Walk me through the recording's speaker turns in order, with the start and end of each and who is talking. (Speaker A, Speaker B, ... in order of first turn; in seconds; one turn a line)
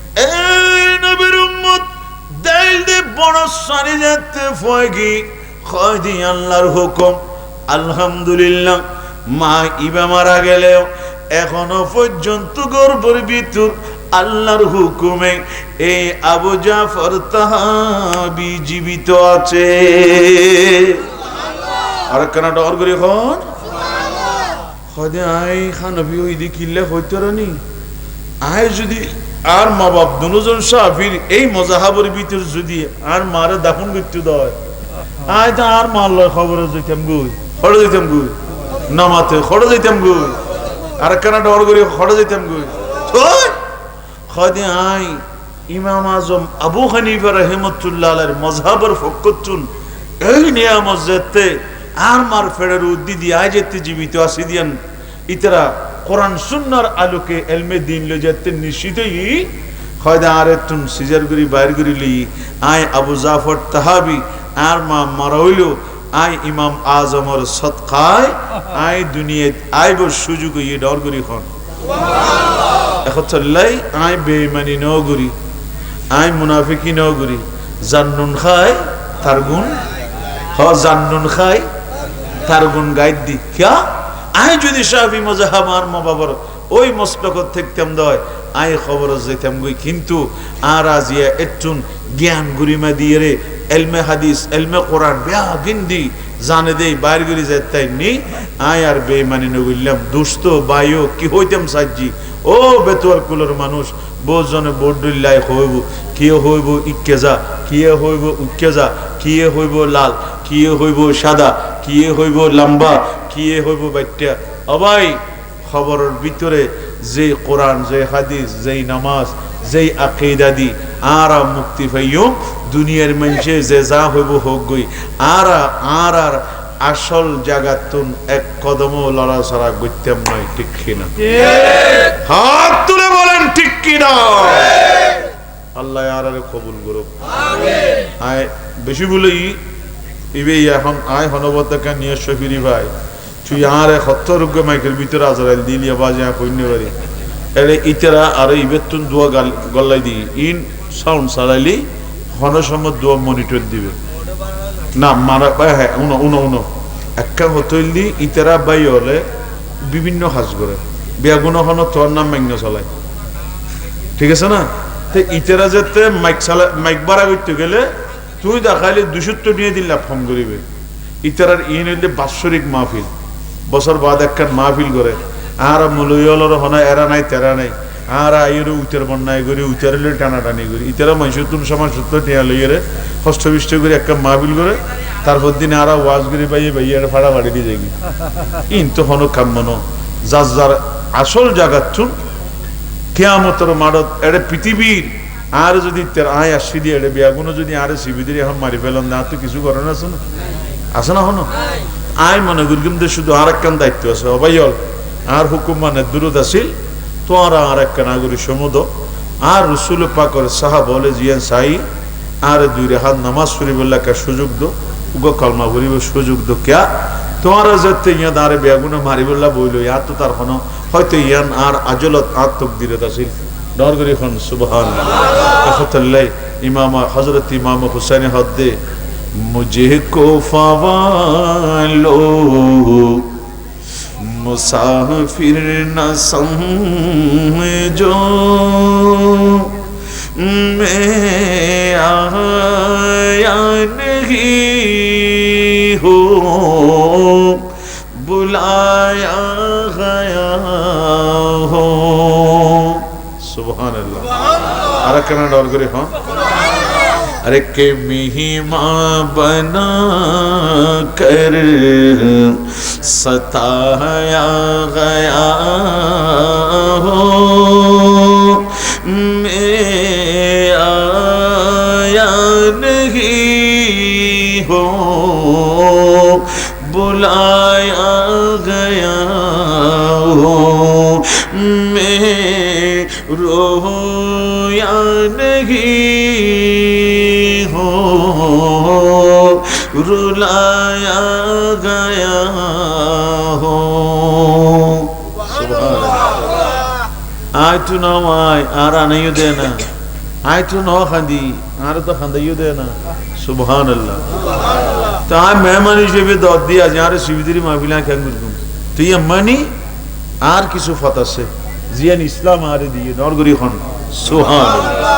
Speaker A: 0.1-21.0
Speaker A: 22.1-23.5
Speaker A: 24.9-27.6
Speaker A: 28.4-34.5
Speaker A: 35.2-38.3
Speaker A: 38.9-40.4
Speaker A: 41.0-43.6
Speaker A: 44.3-49.7
Speaker A: 50.2-71.5
Speaker A: 73.0-75.3
Speaker A: 76.1-79.8
Speaker A: 80.5-81.7
Speaker A: 82.4-131.1
Speaker A: 132.1-134.9
Speaker A: 135.7-137.1
Speaker A: 138.2-139.6
Speaker A: 140.3-142.9
Speaker A: 143.4-146.9
Speaker A: 147.5-154.0
Speaker A: 154.9-159.2
Speaker A: 159.8-162.9
Speaker A: 164.2-170.6
Speaker A: 171.2-173.1
Speaker A: 173.7-187.9
Speaker A: 188.7-192.1
Speaker A: 193.1-200.2
Speaker A: 200.9-201.5
Speaker A: 202.1-206.7
Speaker A: 207.2-208.9
Speaker A: 209.4-211.8
Speaker A: 212.4-228.8
Speaker A: 229.3-233.3
Speaker A: 234.2-239.7
Speaker A: 240.3-254.3
Speaker A: 255.0-256.2
Speaker A: 257.4-296.3
Speaker A: 297.5-299.9
Speaker A: 300.4-304.2
Speaker A: 305.2-309.7
Speaker A: 310.4-315.0